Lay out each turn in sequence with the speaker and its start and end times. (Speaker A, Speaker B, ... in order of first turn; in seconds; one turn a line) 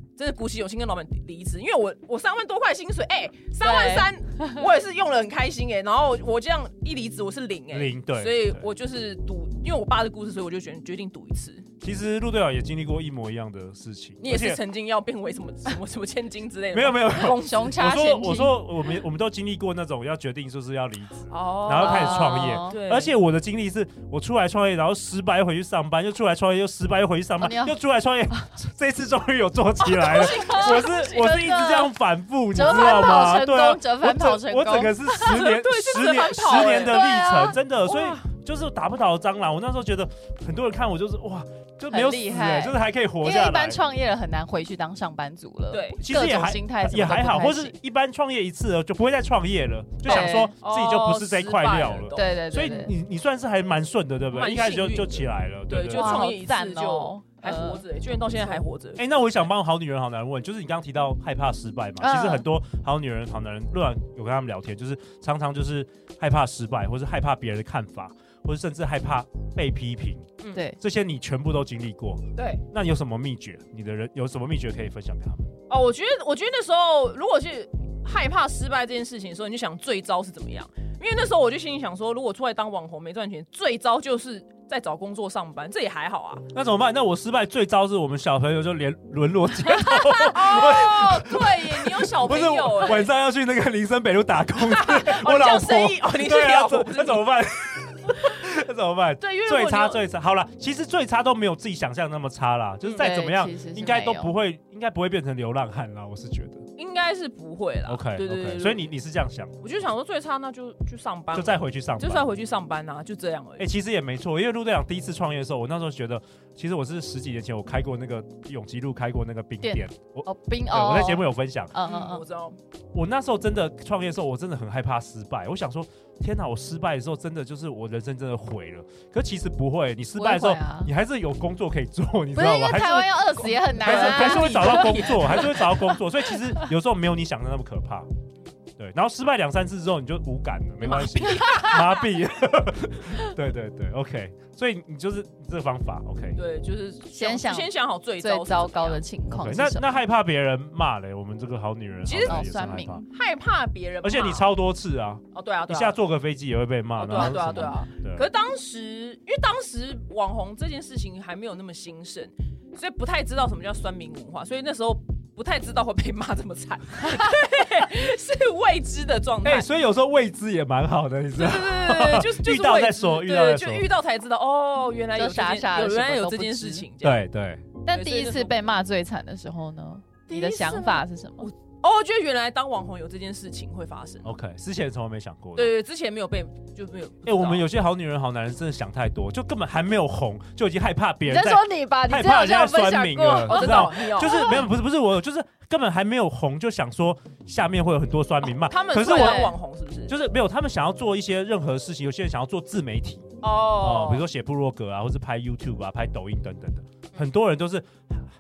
Speaker A: 0.2-11.7
Speaker B: 3.6-4.7
Speaker C: 7.7-8.7
Speaker C: 11.8-14.6
Speaker A: 14.2-17.7
Speaker C: 16.7-43.8
Speaker B: 17.1-18.7
Speaker A: 21.3-23.1
Speaker B: 21.7-22.8
Speaker B: 27.4-27.8
Speaker A: 30.0-31.4
Speaker B: 30.0-31.9
Speaker B: 32.5-35.5
Speaker A: 35.2-38.2
Speaker B: 36.6-37.6
Speaker B: 41.9-47.8
Speaker A: 45.7-46.0
Speaker C: 46.0-56.3
Speaker B: 50.0-50.5
Speaker A: 50.1-52.4
Speaker B: 52.1-52.9
Speaker A: 54.3-59.0
Speaker B: 55.9-58.6
Speaker C: 59.0-75.5
Speaker B: 62.0-62.5
Speaker A: 72.4-72.6
Speaker A: 75.7-86.5
Speaker C: 86.5-106.6
Speaker A: 89.9-93.1
Speaker A: 94.6-97.2
Speaker A: 99.2-100.0
Speaker B: 103.0-104.3
Speaker A: 106.8-108.9
Speaker C: 107.9-109.6
Speaker A: 109.6-113.7
Speaker C: 111.3-112.3
Speaker C: 113.6-121.8
Speaker B: 119.6-122.2
Speaker A: 121.8-122.6
Speaker C: 122.9-138.1
Speaker B: 130.2-130.9
Speaker B: 132.3-135.8
Speaker A: 133.5-135.8
Speaker C: 138.8-146.4
Speaker A: 140.8-142.0
Speaker B: 141.4-141.8
Speaker A: 146.4-149.0
Speaker B: 147.1-149.9
Speaker C: 149.3-153.1
Speaker A: 152.1-152.5
Speaker B: 152.2-153.1
Speaker A: 153.1-154.5
Speaker C: 154.0-158.3
Speaker A: 155.3-156.0
Speaker A: 157.0-169.7
Speaker B: 157.2-157.8
Speaker C: 169.4-173.9
Speaker A: 171.3-177.2
Speaker B: 175.2-176.9
Speaker C: 177.0-177.7
Speaker B: 177.8-181.5
Speaker A: 177.9-178.5
Speaker A: 180.3-184.3
Speaker C: 184.2-185.7
Speaker A: 185.6-187.7
Speaker C: 187.2-199.5
Speaker B: 191.3-194.7
Speaker A: 193.4-194.6
Speaker A: 198.5-200.1
Speaker B: 199.1-199.5
Speaker C: 200.1-208.2
Speaker A: 203.4-204.3